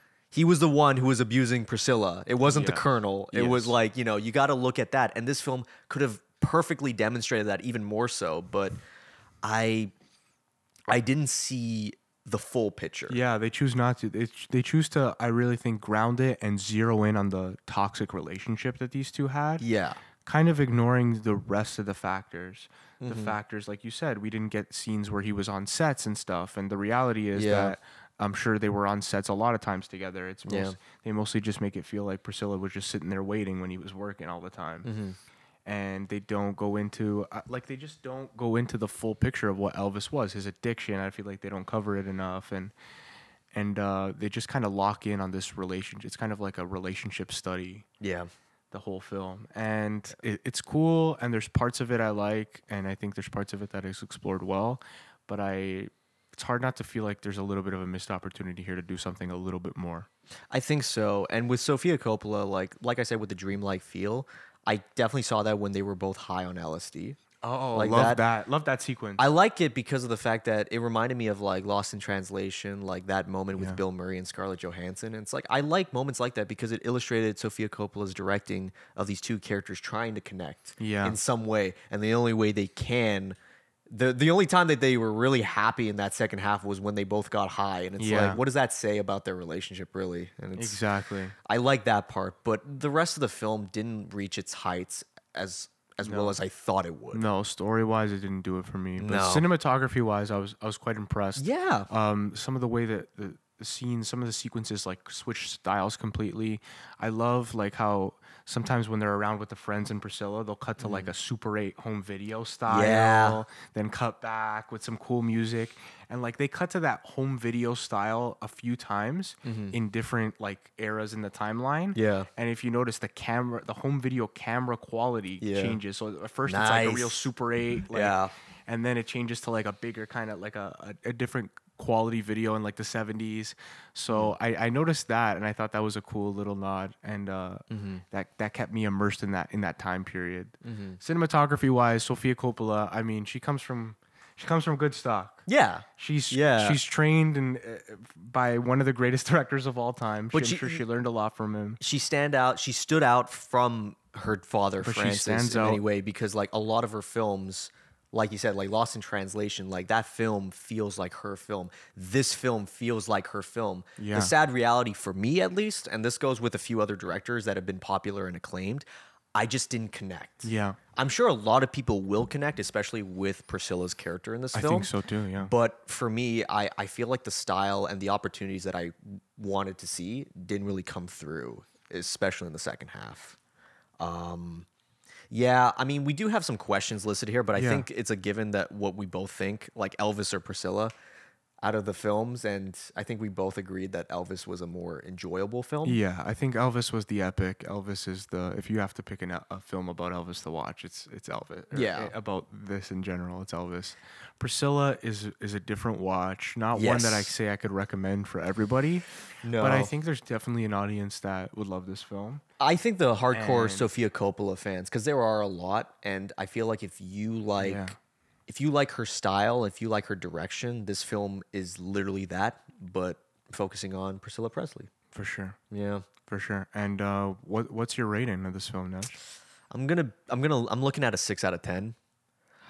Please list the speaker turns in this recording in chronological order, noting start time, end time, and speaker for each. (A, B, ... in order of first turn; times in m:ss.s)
0:00.3-0:08.8 A
0:02.4-0:03.8 B
0:09.4-0:09.9 A
0:10.9-0:13.2 A
0:13.1-0:19.6 B
0:19.6-0:20.0 A
0:20.2-0:34.9 B
0:23.0-0:23.4 A
0:27.4-0:27.8 A
0:30.5-0:30.8 A
0:34.8-0:35.2 A
0:35.6-0:42.7 B
0:43.5-0:47.9 B
0:48.0-0:48.3 A
0:48.7-1:00.1 B
1:00.5-1:07.2 A
1:07.4-1:09.3 B
1:07.8-1:08.2 A
1:09.2-1:23.4 A
1:20.8-1:21.2 B
1:23.9-1:30.8 A
1:28.0-1:28.4 B
1:30.6-1:31.4 B
1:31.4-1:37.3 A
1:36.0-1:36.4 B
1:37.1-2:25.4 B
1:39.0-1:39.5 A
1:41.4-1:41.9 A
1:50.8-1:51.1 A
1:52.7-1:53.4 A
1:59.4-1:59.8 A
2:02.0-2:02.3 A
2:05.4-2:05.8 A
2:06.5-2:07.2 A
2:07.9-2:08.3 A
2:17.7-2:18.0 A
2:20.6-2:21.0 A
2:25.5-2:26.8 A
2:26.0-2:31.8 B
2:30.3-2:30.8 A
2:31.8-3:03.4 A
2:34.8-2:35.8 B
2:44.0-2:44.3 B
2:50.4-2:50.8 B
2:54.5-2:55.5 B
3:04.0-3:04.7 A
3:05.3-3:10.9 A
3:07.6-3:07.9 B
3:11.6-3:16.0 A
3:15.8-3:29.0 B
3:21.7-3:22.1 A
3:26.8-3:27.3 A
3:29.4-3:29.9 A
3:29.6-3:32.4 B
3:32.6-3:37.9 A
3:33.3-3:33.9 B
3:37.6-3:38.0 B
3:38.5-3:44.9 A
3:45.1-3:45.6 B
3:45.7-3:46.1 A
3:46.2-3:49.1 B
3:49.7-3:52.0 A